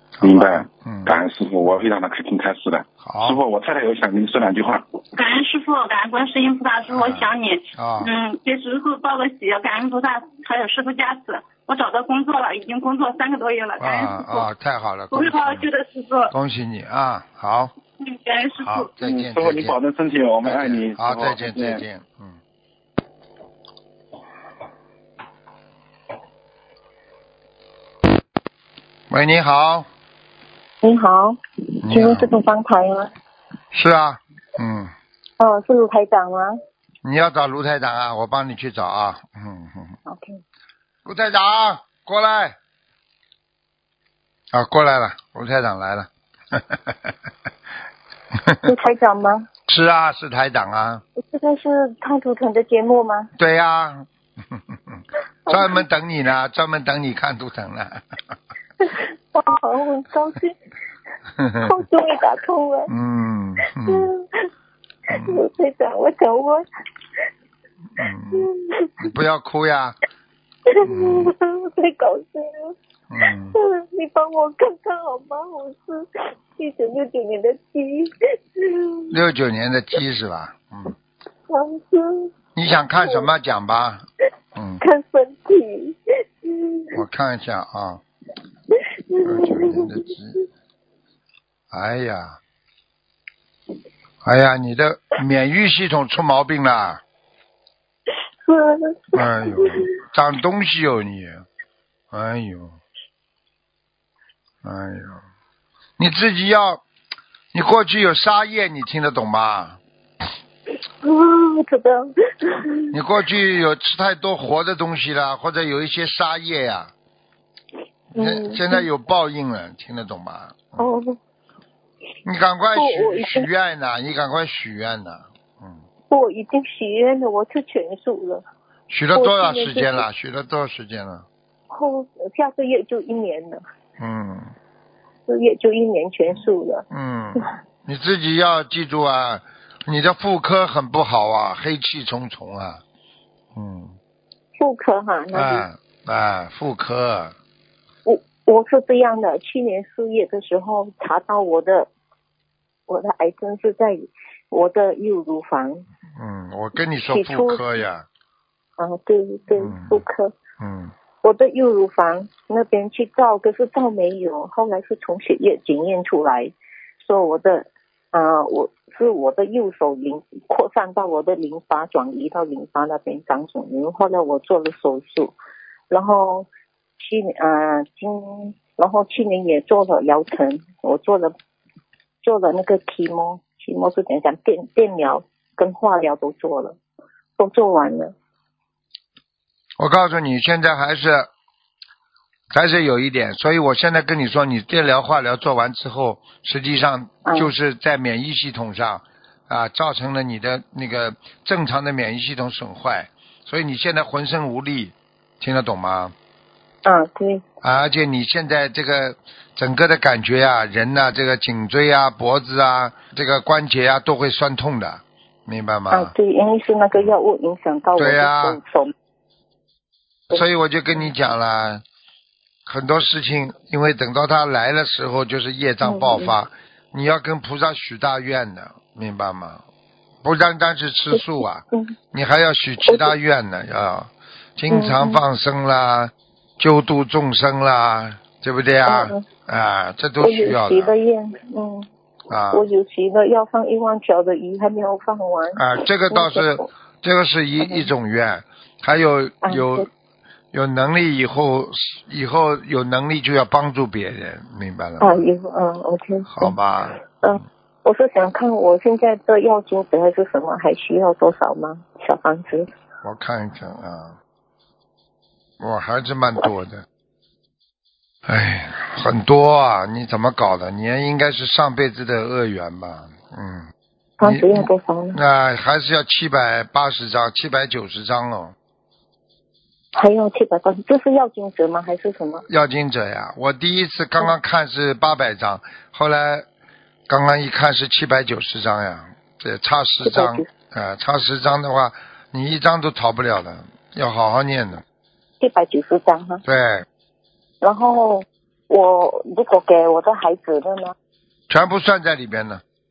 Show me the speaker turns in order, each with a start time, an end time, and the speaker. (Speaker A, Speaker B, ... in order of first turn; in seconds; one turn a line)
Speaker A: 0.2-1.2
Speaker B: 0.2-5.0
Speaker A: 3.0-3.4
Speaker C: 5.1-14.5
Speaker A: 6.9-8.1
Speaker A: 13.8-15.7
Speaker C: 15.1-16.3
Speaker A: 16.3-17.7
Speaker C: 18.0-18.9
Speaker A: 18.6-19.8
Speaker B: 19.0-21.8
Speaker A: 20.4-22.4
Speaker A: 29.1-29.9
Speaker D: 30.8-33.1
Speaker A: 31.8-32.3
Speaker A: 33.7-34.9
Speaker D: 35.4-36.5
Speaker A: 37.0-39.9
Speaker D: 40.1-40.4
Speaker A: 41.0-42.5
Speaker A: 44.5-47.1
Speaker D: 48.6-49.5
Speaker A: 49.7-51.0
Speaker D: 51.2-53.3
Speaker A: 53.4-58.0
Speaker D: 55.5-55.8
Speaker D: 58.8-60.5
Speaker A: 61.4-61.7
Speaker D: 61.6-62.9
Speaker A: 62.9-64.1
Speaker D: 63.8-64.5
Speaker D: 65.1-66.7
Speaker A: 65.1-65.4
Speaker A: 68.0-68.5
Speaker D: 68.3-69.1
Speaker A: 69.0-70.0
Speaker D: 70.7-72.7
Speaker A: 70.8-71.3
Speaker A: 73.1-73.6
Speaker D: 73.5-79.1
Speaker A: 79.1-80.9
Speaker D: 81.5-82.3
Speaker A: 82.5-84.0
Speaker D: 83.0-83.3
Speaker A: 84.5-84.8
Speaker D: 84.8-87.0
Speaker A: 86.9-88.0
Speaker D: 88.7-90.0
Speaker A: 89.2-90.3
Speaker A: 91.7-92.4
Speaker A: 94.2-97.0
Speaker D: 98.4-99.9
Speaker A: 99.1-101.4
Speaker A: 102.1-102.8
Speaker A: 104.6-105.2
Speaker A: 106.0-106.8
Speaker A: 107.5-109.8
Speaker D: 111.0-112.9
Speaker A: 112.9-116.9
Speaker D: 118.1-118.9
Speaker A: 118.1-120.9
Speaker D: 120.8-121.2
Speaker A: 122.2-125.8
Speaker D: 122.7-123.5
Speaker D: 126.1-128.4
Speaker A: 128.9-131.2
Speaker D: 129.1-130.1
Speaker D: 131.7-133.6
Speaker A: 134.0-134.5
Speaker D: 135.3-136.8
Speaker A: 136.9-142.8
Speaker A: 143.5-144.0
Speaker D: 144.6-145.7
Speaker A: 145.3-147.3
Speaker D: 148.0-151.9
Speaker D: 152.9-155.8
Speaker A: 156.2-158.1
Speaker D: 157.1-157.7
Speaker D: 158.8-160.3
Speaker A: 159.6-160.0
Speaker A: 160.6-160.9
Speaker D: 161.2-175.3
Speaker D: 175.9-176.5
Speaker D: 177.0-181.3
Speaker D: 182.2-186.8
Speaker D: 187.4-188.1
Speaker A: 189.8-191.3
Speaker A: 192.5-206.1
Speaker D: 197.2-197.5
Speaker D: 206.8-207.4
Speaker A: 207.6-216.1
Speaker D: 215.9-218.9
Speaker A: 218.0-218.6
Speaker A: 220.3-221.8
Speaker A: 222.7-229.6
Speaker D: 225.8-226.3
Speaker A: 230.2-240.9
Speaker D: 231.1-231.9
Speaker D: 232.8-233.1
Speaker D: 234.7-235.2
Speaker D: 238.8-239.2
Speaker D: 240.2-241.9
Speaker A: 242.3-242.6
Speaker D: 242.5-246.7
Speaker A: 245.6-249.9
Speaker D: 247.6-247.9
Speaker D: 249.4-249.8
Speaker A: 250.5-255.2
Speaker D: 255.0-256.5
Speaker A: 256.3-257.4
Speaker D: 257.1-262.7
Speaker A: 263.0-264.2
Speaker A: 265.6-266.8
Speaker A: 268.2-273.7
Speaker D: 274.2-275.2
Speaker A: 274.2-278.5
Speaker D: 279.9-282.4
Speaker A: 282.5-286.5
Speaker A: 287.1-294.8
Speaker D: 290.0-290.5
Speaker D: 295.4-296.4
Speaker A: 296.4-296.9
Speaker D: 297.6-300.9
Speaker A: 301.5-302.6